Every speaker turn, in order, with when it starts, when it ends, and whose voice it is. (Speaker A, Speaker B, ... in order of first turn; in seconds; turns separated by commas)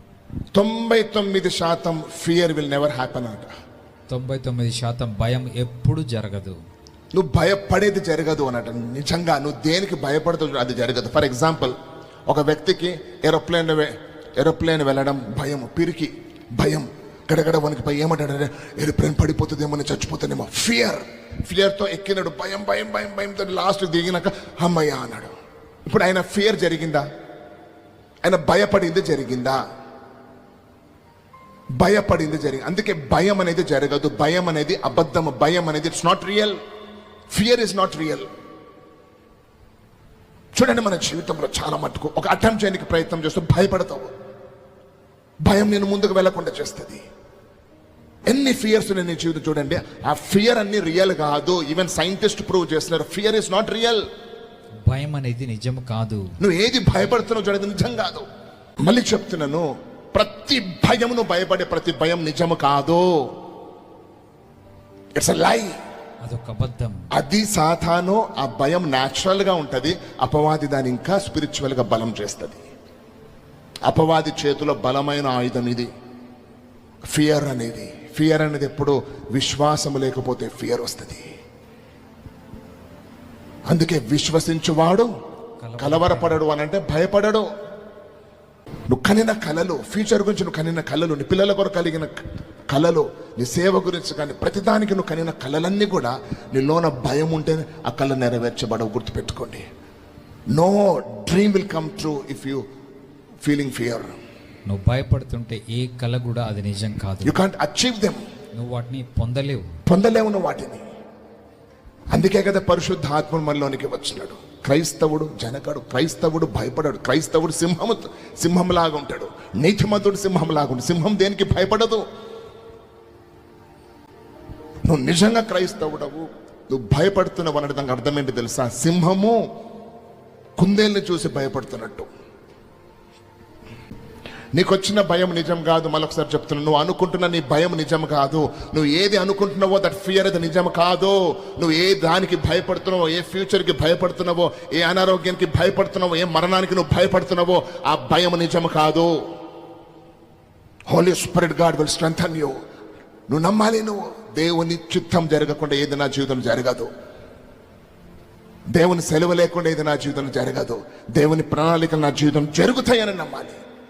Speaker A: 0.5-3.5, Speaker B: 4.1-6.6, Speaker A: 7.1-11.8, Speaker A: 12.3-25.3, Speaker A: 25.9-27.1, Speaker A: 28.2-29.6, Speaker A: 31.8-36.6, Speaker A: 37.3-38.3, Speaker A: 40.5-44.1, Speaker A: 45.5-47.0, Speaker A: 48.3-54.0, Speaker B: 54.9-56.2, Speaker A: 56.4-58.2, Speaker A: 58.8-63.2, Speaker A: 65.2-65.8, Speaker B: 66.2-67.0, Speaker A: 67.1-72.6, Speaker A: 73.9-75.9, Speaker A: 77.1-81.2, Speaker A: 83.7-85.1, Speaker B: 85.6-86.4, Speaker A: 85.8-87.5, Speaker A: 88.9-99.6, Speaker A: 100.5-102.6, Speaker A: 103.4-104.2, Speaker B: 104.7-107.4, Speaker A: 107.2-108.2, Speaker B: 108.6-109.7, Speaker A: 109.9-110.8, Speaker A: 112.1-122.0, Speaker A: 124.9-129.4, Speaker A: 130.6-132.1, Speaker A: 134.6-149.1, Speaker A: 150.9-152.6, Speaker A: 153.3-156.9, Speaker A: 158.7-163.6